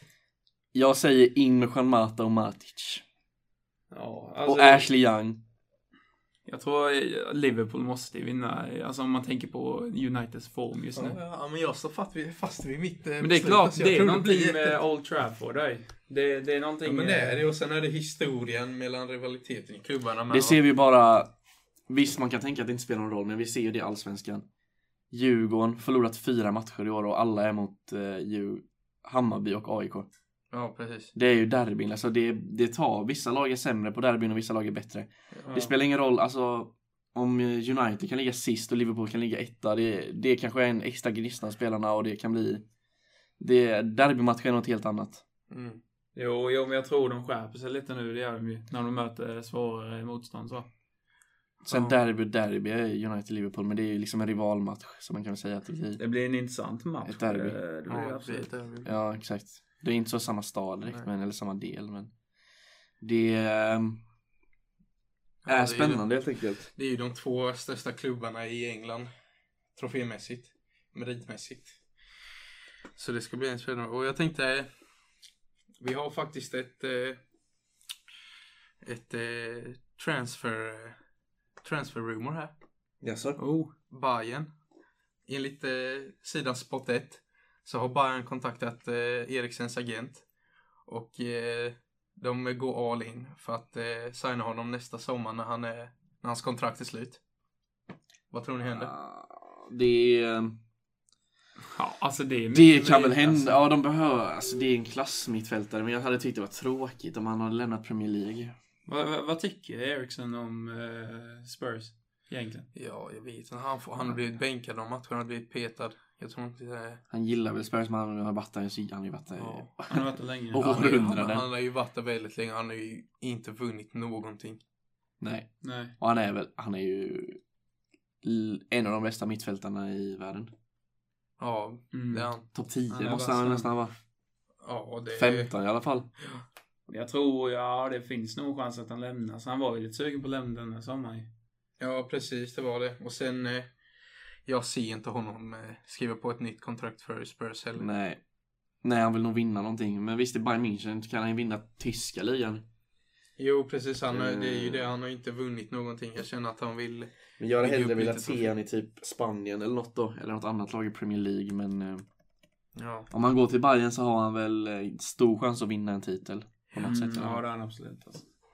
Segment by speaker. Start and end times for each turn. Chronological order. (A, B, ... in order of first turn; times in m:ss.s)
0:00.7-0:03.0 A
0:03.9-0:04.9 B
0:04.4-0:05.4 A
0:06.4-0:11.2 B
0:10.9-0:14.8 C
0:13.2-0:17.4 B
0:16.8-0:20.6 C
0:20.3-0:21.3 A
0:21.9-0:24.4 A
0:25.1-0:30.1 A
0:30.5-0:31.1 C
0:31.1-0:42.6 A
0:35.5-0:35.7 B
0:43.4-0:45.2 A
0:45.5-0:45.8 C
0:46.1-0:50.7 B
0:51.6-0:56.0 A
0:51.7-0:52.0 C
0:56.0-0:58.5 B
0:57.0-0:57.6 A
0:57.9-0:58.9 C
0:58.8-1:02.1 A
1:03.0-1:04.0 A
1:05.4-1:06.1 C
1:05.5-1:06.7 A
1:06.7-1:09.1 C
1:09.8-1:11.8 C
1:13.0-1:14.7 C
1:15.8-1:17.2 C
1:18.8-1:21.0 C
1:21.6-1:22.5 C
1:23.0-1:23.4 A
1:23.4-1:23.7 B
1:23.9-1:24.5 C
1:25.3-1:30.2 C
1:30.9-1:37.2 C
1:38.3-1:38.9 C
1:38.7-1:40.6 A
1:41.6-1:43.6 B
1:42.5-1:48.5 A
1:48.8-1:52.7 B
1:52.7-1:57.0 C
1:57.1-2:01.4 A
1:59.4-1:59.7 C
1:59.9-2:01.0 B
2:00.6-2:04.6 C
2:05.2-2:07.4 A
2:05.6-2:05.9 B
2:08.2-2:10.5 A
2:11.4-2:12.4 C
2:11.9-2:12.3 B
2:12.5-2:13.9 A
2:12.9-2:13.7 B
2:14.6-2:15.5 C
2:15.1-2:16.1 A
2:16.9-2:21.3 B
2:21.8-2:23.7 C
2:24.4-2:27.9 C
2:27.8-2:28.2 A
2:28.8-2:32.6 A
2:33.4-2:38.5 C
2:34.1-2:34.9 A
2:37.4-2:42.0 A
2:42.8-2:43.1 C
2:43.1-2:47.4 A
2:46.8-2:48.3 B